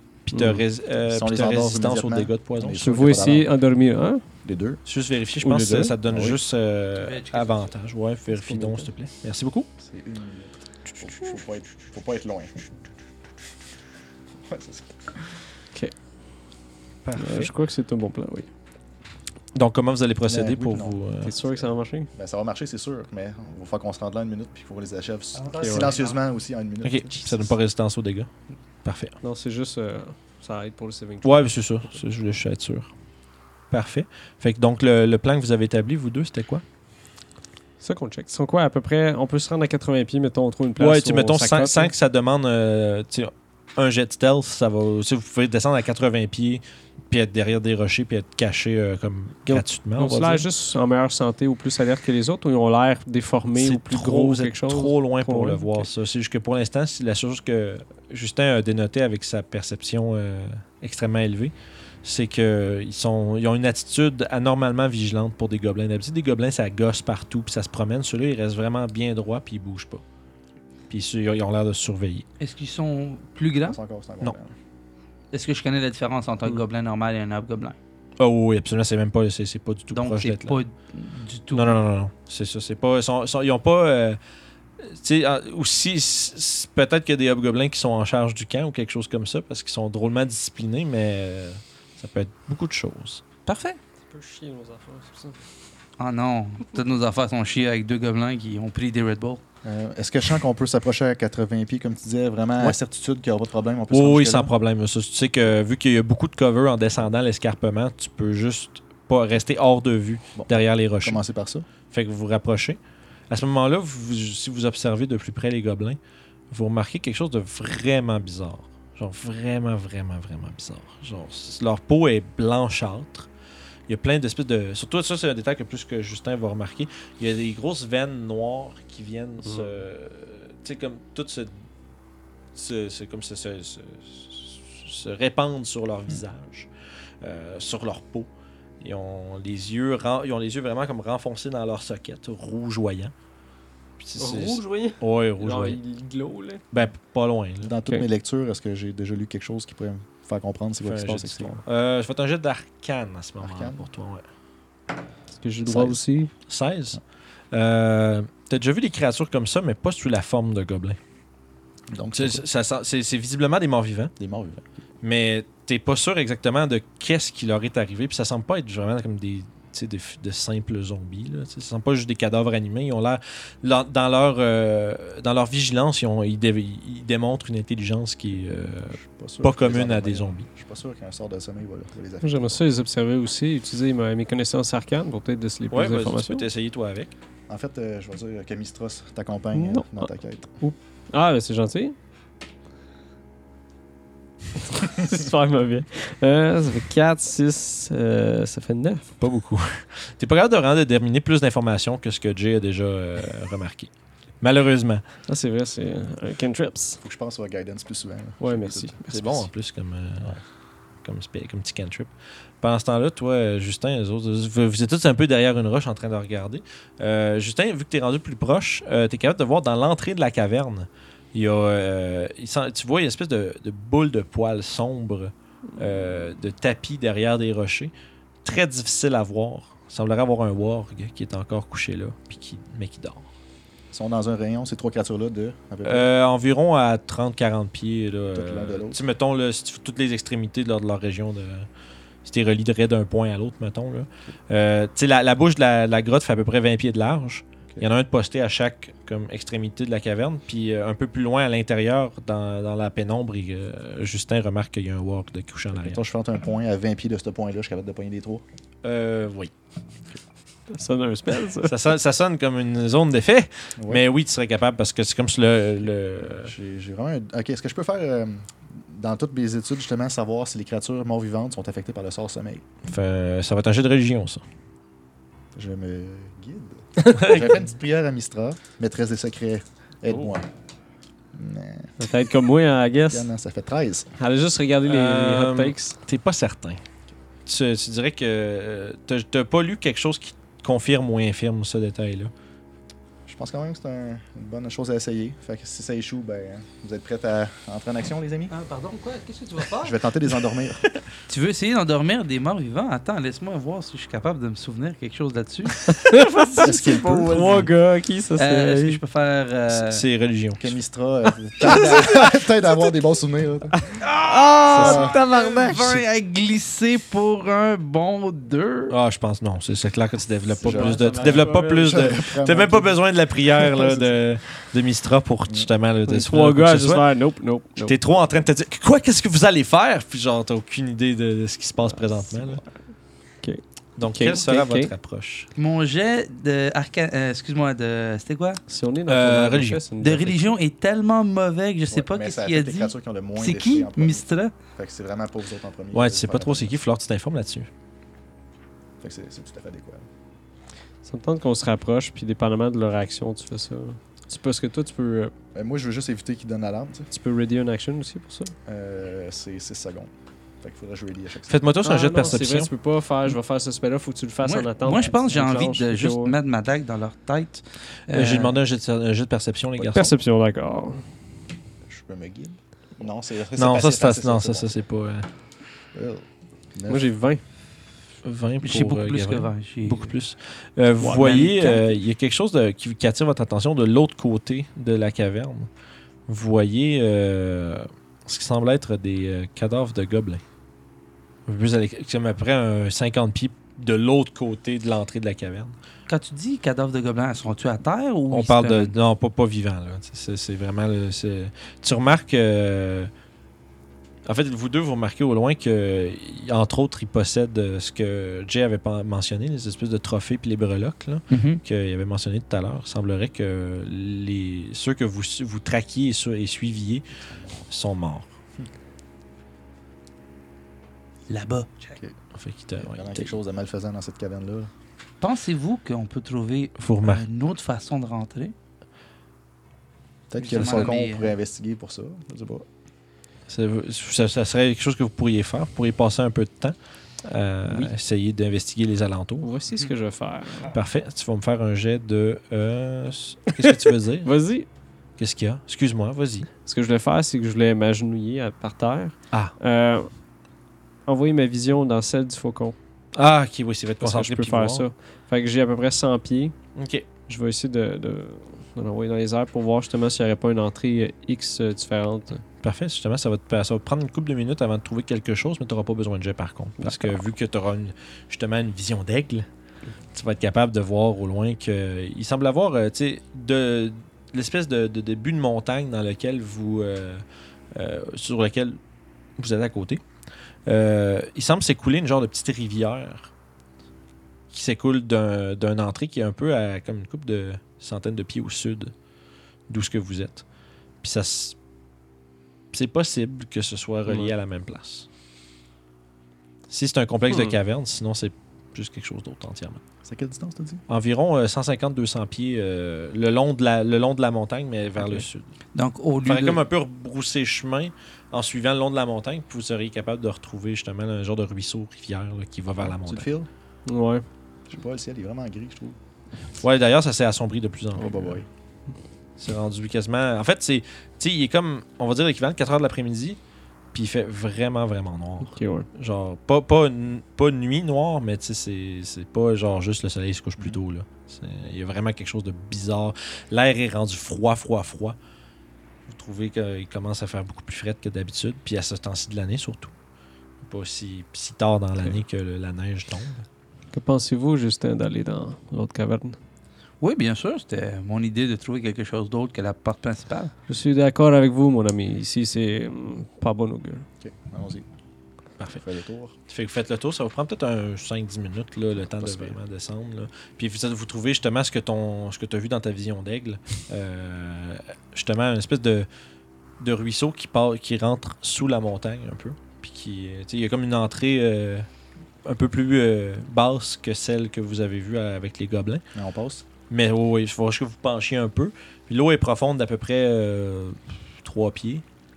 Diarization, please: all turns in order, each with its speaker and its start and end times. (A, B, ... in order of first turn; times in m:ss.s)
0:00.3-0:03.0 A
0:00.3-0:00.6 B
0:01.0-0:03.5 C
0:02.8-0:04.2 B
0:04.4-0:04.8 C
0:04.9-0:09.7 A
0:05.4-0:05.9 B
0:06.1-0:06.4 C
0:07.0-0:07.7 D
0:08.3-0:08.9 B
0:09.8-0:12.7 C
0:14.5-0:15.4 C
0:17.0-0:17.5 A
0:17.2-0:18.5 B
0:19.5-0:21.4 A
0:20.3-0:27.6 C
0:21.2-0:22.1 B
0:25.4-0:26.2 D
0:25.6-0:25.9 B
0:26.8-0:28.3 A
0:28.8-0:29.2 A
0:29.2-0:31.5 B
0:31.2-0:32.9 A
0:33.7-0:36.6 A
0:37.8-0:41.9 B
0:40.8-0:50.5 A
0:49.5-0:55.9 B
0:53.6-1:10.0 A
1:10.9-1:12.2 A
1:12.4-1:13.8 D
1:13.6-1:14.5 C
1:15.3-1:17.8 D
1:18.2-1:20.6 A
1:19.9-1:21.8 D
1:21.5-1:24.2 A
1:24.8-1:33.2 A
1:33.5-1:33.8 D
1:34.1-1:35.4 B
1:36.0-1:39.4 D
1:39.6-1:44.5 C
1:43.9-1:51.2 A
1:50.4-1:51.7 C
1:51.9-1:52.8 A
1:53.3-1:56.0 A
1:56.5-2:03.3 A
2:03.9-2:11.6 A
2:09.4-2:09.8 B
2:12.6-2:16.7 A
2:17.2-2:18.3 A
2:18.8-2:23.1 A
2:24.0-2:25.8 A
2:24.2-2:26.6 B
2:26.7-2:27.7 A
2:27.6-2:31.6 C
2:30.8-2:34.2 A
2:33.4-2:33.8 C
2:35.3-2:36.3 B
2:35.6-2:36.0 C
2:36.5-2:37.0 A
2:37.5-2:41.0 A
2:41.9-2:42.4 C
2:42.1-2:44.1 A
2:44.2-2:44.6 C
2:45.0-3:00.5 A
2:59.0-3:02.6 C
3:02.2-3:06.5 B
3:05.7-3:07.1 A
3:07.5-3:10.6 C
3:09.6-3:10.1 B
3:10.6-3:12.0 B
3:14.7-3:19.1 B
3:19.2-3:25.0 A
3:25.3-3:27.0 B
3:27.0-3:29.0 C
3:28.4-3:29.5 B
3:29.1-3:30.4 A
3:31.0-3:47.9 A
3:48.4-3:53.3 A
3:53.9-3:56.1 C
3:55.8-4:01.7 A
3:58.3-3:59.0 C
4:02.2-4:16.0 A
4:15.7-4:18.4 C
4:18.8-4:19.5 A
4:20.7-4:21.8 B
4:21.6-4:26.5 A
4:23.8-4:24.0 C
4:26.4-4:32.6 C
4:32.9-4:34.4 A
4:35.6-4:40.5 C
4:37.1-4:37.5 A
4:41.3-4:42.1 C
4:42.0-4:43.3 B
4:43.1-4:44.1 C
4:44.2-4:46.0 B
4:44.8-4:46.8 A
4:47.5-4:52.3 A
4:53.3-4:58.5 C
4:58.5-5:00.0 D
4:59.8-5:00.9 C
5:01.3-5:06.0 D
5:05.9-5:09.0 B
5:06.6-5:07.7 C
5:08.4-5:10.0 D
5:09.7-5:10.8 A
5:10.6-5:14.0 C
5:11.6-5:12.0 D
5:14.0-5:16.0 B
5:14.0-5:18.9 D
5:14.7-5:15.2 C
5:18.9-5:27.1 A
5:20.6-5:23.0 C
5:20.7-5:22.1 B
5:23.6-5:24.2 C
5:26.1-5:28.0 B
5:27.8-5:32.6 A
5:31.8-5:32.7 B
5:33.4-5:34.9 B
5:34.0-5:35.5 A
5:35.6-5:38.6 D
5:38.7-5:40.5 B
5:39.1-5:39.8 A
5:40.0-5:44.5 D
5:41.9-5:46.7 C
5:45.9-5:47.7 A
5:49.0-5:50.1 C
5:51.0-5:55.3 B
5:55.5-5:57.1 C
5:57.1-5:58.5 B
5:58.7-6:01.7 C
6:01.5-6:02.7 A
6:01.8-6:06.4 B
6:04.4-6:08.6 D
6:08.1-6:10.2 A
6:09.9-6:11.0 B
6:11.9-6:14.7 C
6:13.6-6:15.3 A
6:15.9-6:17.1 C
6:16.9-6:17.4 B
6:18.2-6:25.7 A
6:18.6-6:20.2 D
6:21.0-6:21.7 B
6:21.1-6:21.8 D
6:26.3-6:30.4 A
6:31.5-6:35.8 A
6:36.1-6:38.9 D
6:38.3-6:43.1 A
6:44.3-6:57.1 A
6:51.3-6:51.6 D
6:57.2-6:57.6 C
6:57.7-6:58.3 A
7:01.3-7:02.0 D
7:02.4-7:03.3 A
7:02.8-7:04.7 C
7:05.2-7:08.5 D
7:06.8-7:07.2 A
7:10.3-7:12.7 C
7:10.4-7:11.3 D
7:13.5-7:19.5 A
7:17.7-7:17.9 B
7:19.4-7:20.8 B
7:20.7-7:24.3 A
7:23.6-7:24.7 B
7:25.2-7:26.5 A
7:26.6-7:30.1 B
7:31.1-7:32.8 B
7:33.2-7:34.8 A
7:34.0-7:36.6 B
7:36.8-7:37.1 A
7:37.3-7:42.4 B
7:42.6-7:49.5 A
7:46.8-7:47.2 B
7:50.1-7:57.2 A
7:57.7-7:58.8 A
7:59.4-8:00.0 A
8:00.7-8:03.3 A
8:04.5-8:08.9 A
8:09.7-8:10.4 A
8:11.0-8:11.6 A
8:12.7-8:15.1 A
8:14.1-8:14.3 B
8:16.7-8:19.8 A
8:17.3-8:17.6 B
8:20.0-8:20.8 C
8:20.9-8:25.5 A
8:25.7-8:26.6 D
8:26.2-8:33.3 A
8:32.8-8:33.5 C
8:33.9-8:34.2 B
8:34.7-8:36.0 C
8:36.6-8:38.4 A
8:38.0-8:38.5 C
8:39.4-8:43.4 A
8:43.9-8:55.2 A
8:45.4-8:45.9 B
8:56.1-8:59.9 A
9:00.6-9:03.5 A
9:03.9-9:06.4 B
9:07.0-9:10.5 D
9:10.7-9:14.1 B
9:14.2-9:14.9 C
9:15.8-9:16.4 C
9:16.5-9:26.1 A
9:19.0-9:19.6 C
9:26.8-9:31.9 A
9:32.4-9:36.0 A
9:36.1-9:36.7 C
9:36.9-9:42.0 A